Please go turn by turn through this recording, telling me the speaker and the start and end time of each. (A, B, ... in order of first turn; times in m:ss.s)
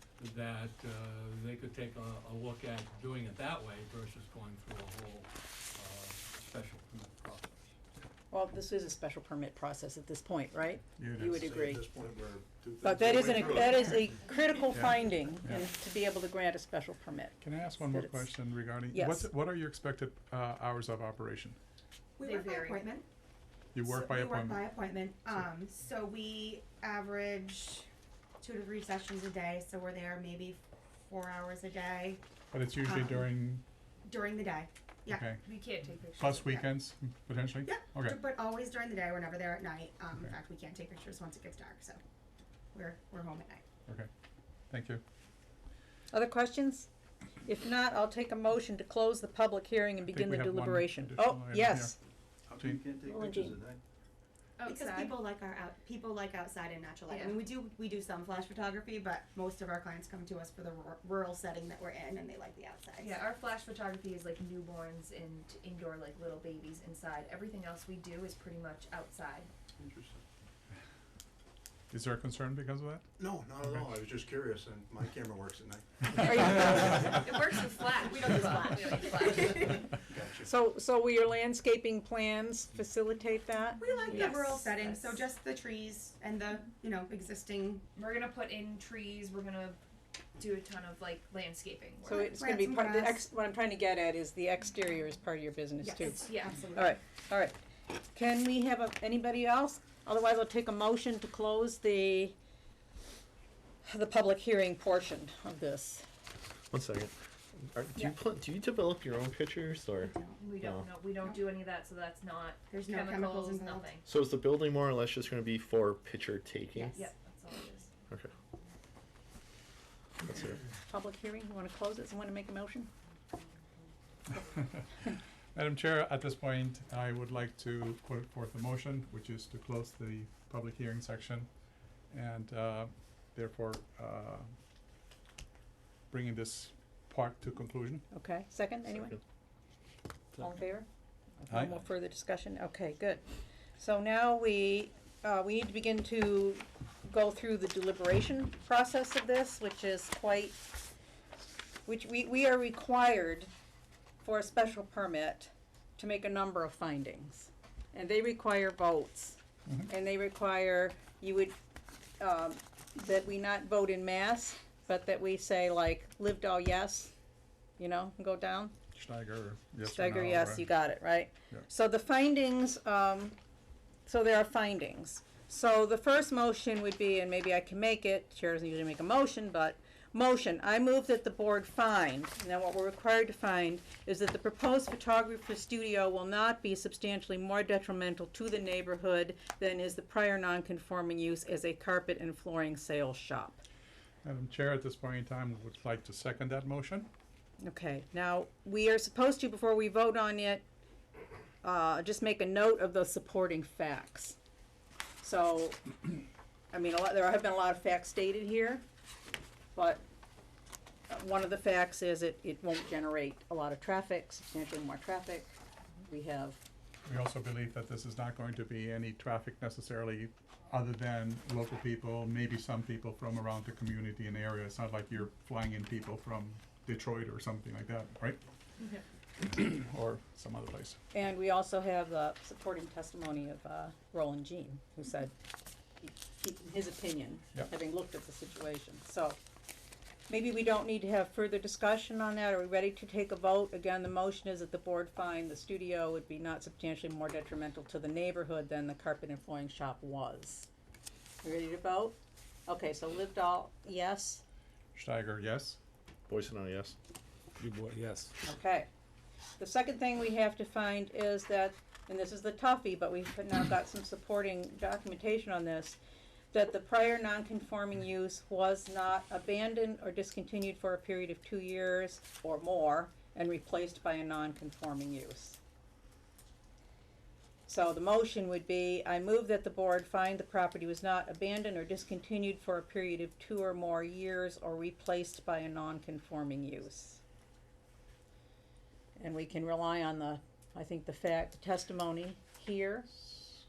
0:00.2-0:07.7 A
0:08.3-0:11.8 B
0:11.0-0:11.5 C
0:11.2-0:14.0 D
0:12.8-0:18.3 B
0:14.7-0:15.7 C
0:17.4-0:21.6 C
0:18.9-0:19.3 B
0:22.2-0:23.0 E
0:22.2-0:22.9 F
0:23.7-0:24.6 C
0:23.8-0:27.9 E
0:28.4-0:32.2 E
0:32.5-0:33.6 C
0:32.8-0:33.4 E
0:34.0-0:35.4 E
0:35.1-0:35.4 C
0:35.4-0:36.6 F
0:36.2-0:38.2 C
0:36.4-0:36.7 E
0:37.6-0:42.0 E
0:42.7-0:43.6 E
0:44.7-0:45.0 C
0:46.1-0:46.9 B
0:47.4-0:52.0 B
0:50.1-0:52.0 C
0:52.6-0:52.9 C
0:52.6-0:53.8 A
0:53.1-0:53.6 B
0:54.6-0:55.2 F
0:54.6-1:03.3 E
0:57.1-0:57.4 F
1:03.0-1:09.5 F
1:09.8-1:10.2 D
1:11.9-1:13.1 C
1:13.2-1:16.8 D
1:13.6-1:13.9 C
1:16.2-1:19.8 F
1:16.2-1:17.2 B
1:18.0-1:19.8 E
1:20.0-1:20.5 D
1:20.4-1:23.8 B
1:23.8-1:27.9 E
1:23.9-1:25.2 F
1:28.0-1:29.8 F
1:30.4-1:32.3 F
1:32.1-1:37.6 B
1:32.1-1:33.2 E
1:35.8-1:37.0 E
1:36.0-1:36.9 F
1:38.1-1:42.3 B
1:43.8-1:46.0 B
1:46.7-1:47.1 G
1:47.7-1:50.9 G
1:50.0-1:50.5 E
1:50.4-1:54.0 F
1:52.7-1:54.0 E
1:54.1-1:57.0 G
1:56.7-1:57.1 E
1:57.0-1:58.0 F
2:00.2-2:00.6 G
2:00.9-2:02.9 B
2:04.4-2:11.5 C
2:12.0-2:14.5 C
2:16.1-2:18.0 C
2:18.1-2:19.2 B
2:20.4-2:20.8 B
2:21.4-2:23.2 B
2:21.5-2:21.8 C
2:23.8-2:30.6 B
2:31.8-2:33.5 B
2:34.2-2:39.4 B
2:39.9-2:41.6 B
2:42.2-2:47.1 B
2:47.8-2:48.7 B
2:48.9-2:50.7 C
2:49.8-2:53.4 B
2:54.0-3:13.6 B
3:14.2-3:17.1 C
3:17.6-3:20.6 B
3:21.6-3:24.4 B
3:25.2-3:26.0 B
3:26.7-3:28.8 B
3:29.7-3:30.0 B
3:31.1-3:36.6 B
3:37.0-3:48.4 C
3:49.4-3:51.0 C
3:51.1-3:55.3 B
3:56.0-3:59.4 B
4:00.3-4:10.7 B
4:11.4-4:12.2 B
4:12.7-4:14.4 B
4:14.9-4:15.8 C
4:16.3-4:16.9 G
4:18.4-4:18.9 B
4:19.6-4:26.0 B
4:26.5-4:35.6 B
4:37.7-4:47.2 B
4:49.2-4:53.3 B